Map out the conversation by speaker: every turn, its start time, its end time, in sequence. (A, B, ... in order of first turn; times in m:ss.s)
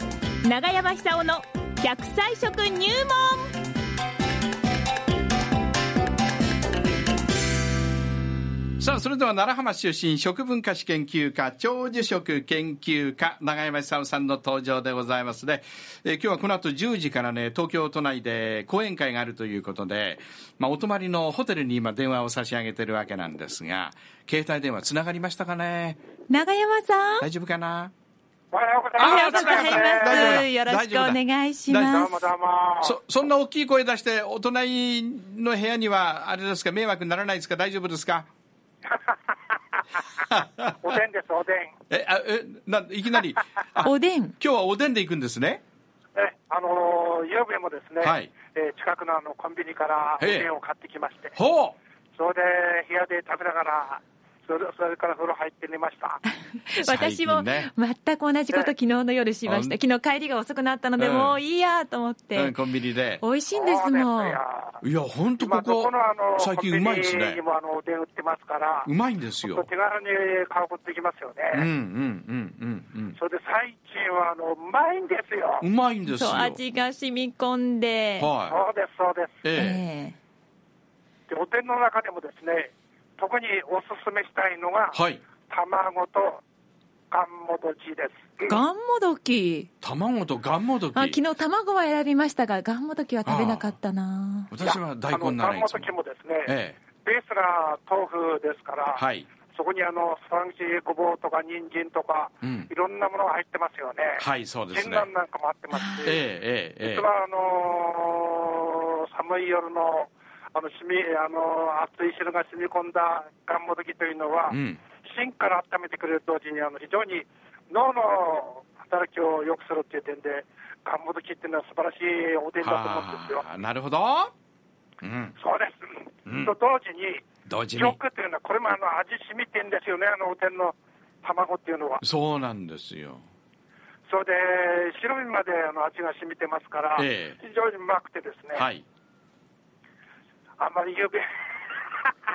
0:00.4-0:03.5 A
0:08.8-0:26.0 B
0:26.3-0:27.3 A
0:27.2-0:27.9 B
0:28.5-0:30.4 C
0:29.0-0:32.1 B
0:29.0-0:32.1 A
0:31.8-0:33.0 C
0:32.8-0:38.3 B
0:38.9-0:39.4 C
0:40.3-0:40.8 B
0:40.8-0:41.8 C
0:41.9-0:45.6 B
0:43.8-0:44.4 A
0:46.2-0:51.4 C
0:48.0-0:48.3 B
0:50.2-0:50.5 B
0:51.4-0:51.8 B
0:52.2-0:56.2 C
0:56.7-1:02.6 A
0:56.7-0:57.7 B
0:59.5-0:59.8 B
1:01.0-1:01.4 B
1:02.3-1:03.2 B
1:03.2-1:04.4 A
1:03.5-1:04.8 C
1:04.8-1:07.4 B
1:05.4-1:08.9 C
1:08.8-1:09.7 B
1:09.4-1:11.7 C
1:11.5-1:13.2 B
1:13.2-1:15.7 C
1:15.6-1:16.6 B
1:16.1-1:18.3 A
1:18.2-1:18.6 B
1:18.5-1:19.5 C
1:19.4-1:19.8 B
1:19.5-1:20.2 A
1:21.3-1:26.4 C
1:24.9-1:25.2 B
1:27.1-1:28.6 C
1:28.5-1:29.7 A
1:29.8-1:31.2 B
1:30.9-1:34.5 A
1:33.3-1:33.7 B
1:34.5-1:35.9 B
1:34.6-1:46.2 C
1:36.5-1:36.8 B
1:38.9-1:39.3 B
1:42.4-1:42.7 B
1:44.2-1:45.1 B
1:45.7-1:46.2 A
1:46.0-1:47.1 B
1:46.8-2:03.5 C
1:54.5-1:54.8 B
2:02.6-2:04.3 B
2:05.0-2:05.4 B
2:05.4-2:12.0 C
2:06.3-2:06.5 B
2:07.5-2:08.0 B
2:12.0-2:13.2 B
2:14.1-2:18.7 C
2:17.0-2:17.4 B
2:18.6-2:18.8 B
2:20.6-2:22.1 C